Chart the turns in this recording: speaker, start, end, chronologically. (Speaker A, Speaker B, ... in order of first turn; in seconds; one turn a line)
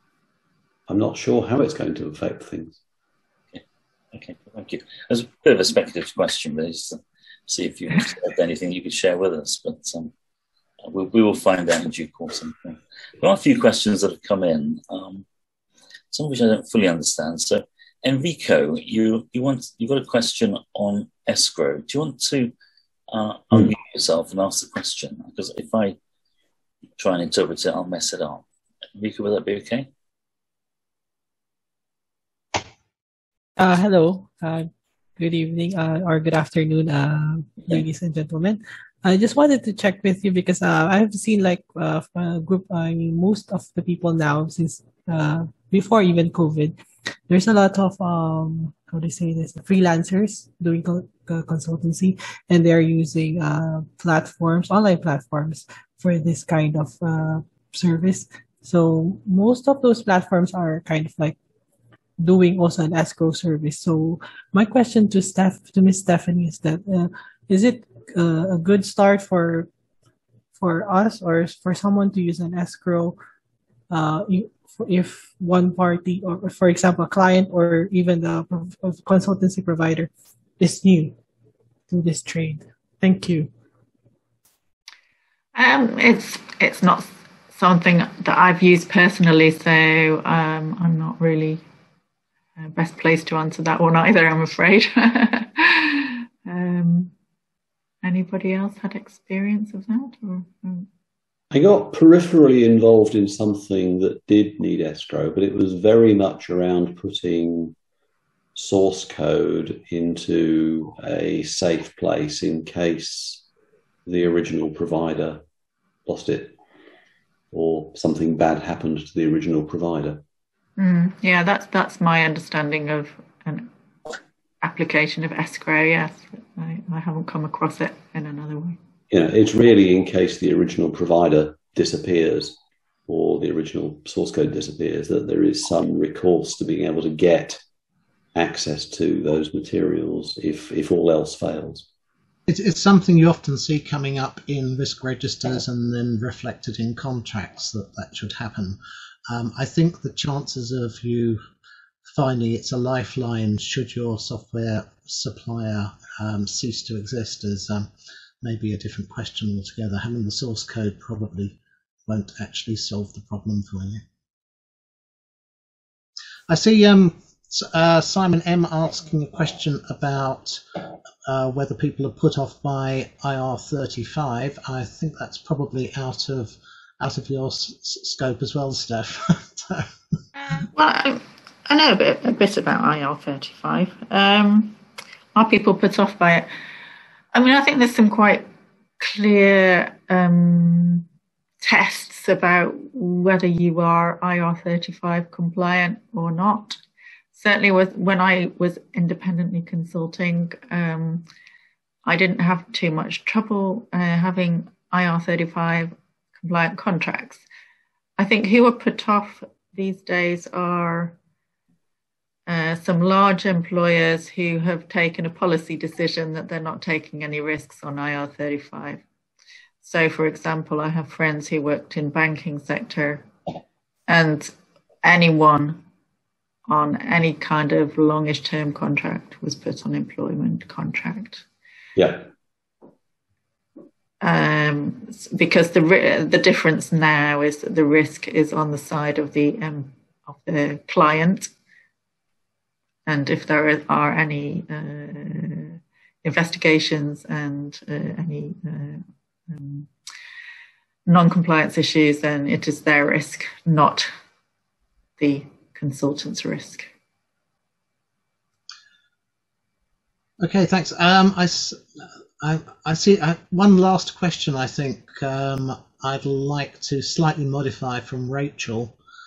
Speaker A: 0.9-2.8
Speaker B: 4.1-10.1
Speaker B: 10.8-15.2
Speaker B: 16.1-22.5
Speaker B: 23.1-25.9
Speaker B: 27.0-28.4
Speaker B: 28.9-29.9
Speaker C: 33.6-61.4
Speaker C: 62.2-69.7
Speaker C: 70.5-73.2
Speaker C: 73.9-81.1
Speaker C: 81.9-83.5
Speaker D: 85.5-91.6
Speaker D: 92.6-97.1
Speaker D: 98.0-100.9
Speaker A: 101.5-107.7
Speaker A: 108.5-113.4
Speaker A: 114.0-115.4
Speaker A: 116.0-116.5
Speaker A: 117.5-120.2
Speaker D: 120.8-128.8
Speaker A: 129.1-137.6
Speaker A: 138.3-141.9
Speaker E: 142.5-148.8
Speaker E: 149.3-151.4
Speaker E: 152.1-157.9
Speaker E: 158.4-164.0
Speaker E: 166.5-170.6
Speaker E: 171.2-179.9
Speaker D: 180.3-184.7
Speaker D: 185.3-186.5
Speaker D: 187.3-188.4
Speaker D: 189.0-191.1
Speaker D: 191.6-196.8
Speaker D: 197.3-201.2
Speaker D: 202.0-207.4
Speaker D: 208.2-211.2
Speaker D: 212.5-219.0
Speaker D: 219.8-223.2
Speaker D: 224.1-224.5
Speaker D: 225.0-225.8
Speaker D: 226.7-231.4
Speaker A: 231.9-232.2
Speaker D: 234.2-241.5
Speaker D: 243.1-249.9
Speaker D: 251.1-254.1
Speaker D: 255.2-256.9
Speaker E: 260.4-269.0